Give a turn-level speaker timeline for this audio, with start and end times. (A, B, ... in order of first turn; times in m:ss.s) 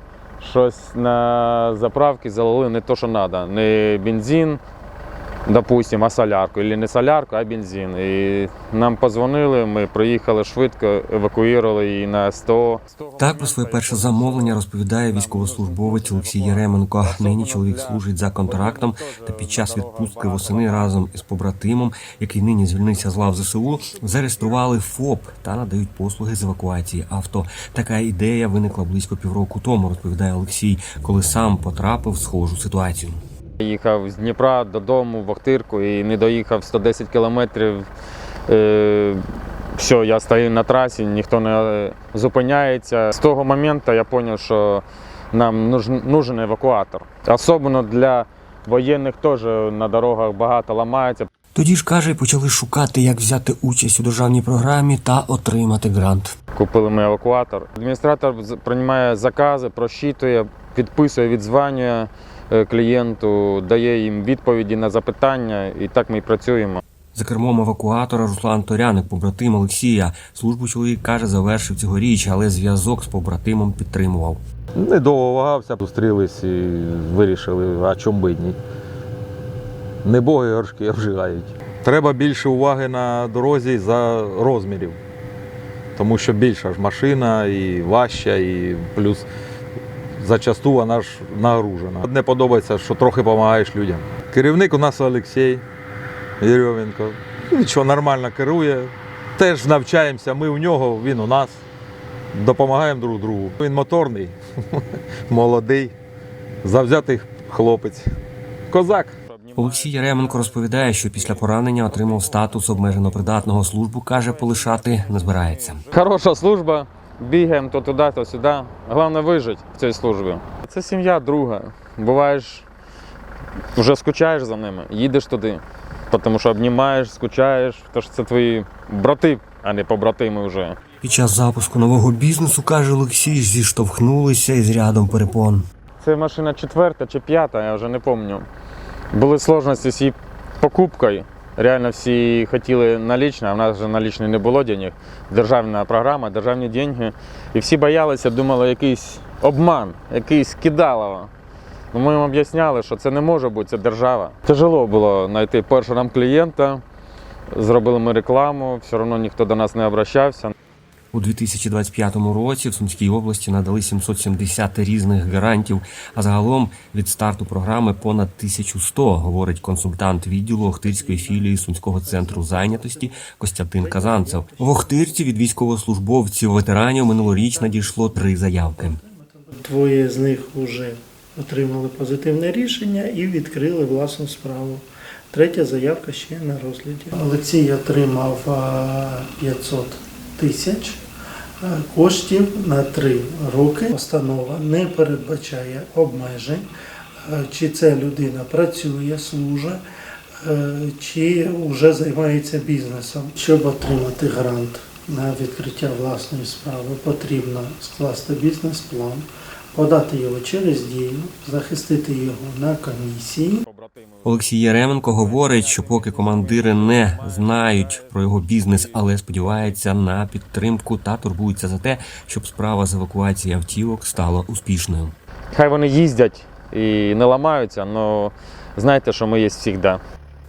0:00.4-0:04.6 A
0:05.5-0:14.6 A
0:13.2-0:33.2 B
0:15.2-0:20.9 A
0:33.6-0:37.9 A
0:38.5-0:39.2 A
0:39.8-0:51.3 A
0:51.6-0:56.4 B
0:56.6-1:06.8 A
1:07.2-1:14.4 B
1:14.8-1:18.6 C
1:20.1-1:25.0 C
1:26.0-1:29.3 C
1:30.2-1:35.6 C
1:36.4-1:41.6 C
1:42.4-1:45.9 C
1:46.6-1:48.1 C
1:48.7-1:49.2 C
1:49.2-1:53.4 A
1:49.6-1:55.9 B
1:55.4-2:02.7 A
2:03.8-2:10.8 A
2:11.0-2:15.6 B
2:16.0-2:18.5 A
2:19.1-2:31.3 A
2:31.9-2:36.8 A
2:37.5-2:40.6 A
2:41.1-2:59.0 B
2:51.0-2:53.2 D
2:53.8-2:55.2 D
2:57.4-3:11.0 D
3:11.6-3:16.7 D
3:17.2-3:19.8 D
3:20.4-3:33.7 D
3:33.6-3:34.3 A
3:34.2-3:45.2 B
3:34.9-3:39.0 A
3:45.5-3:50.0 A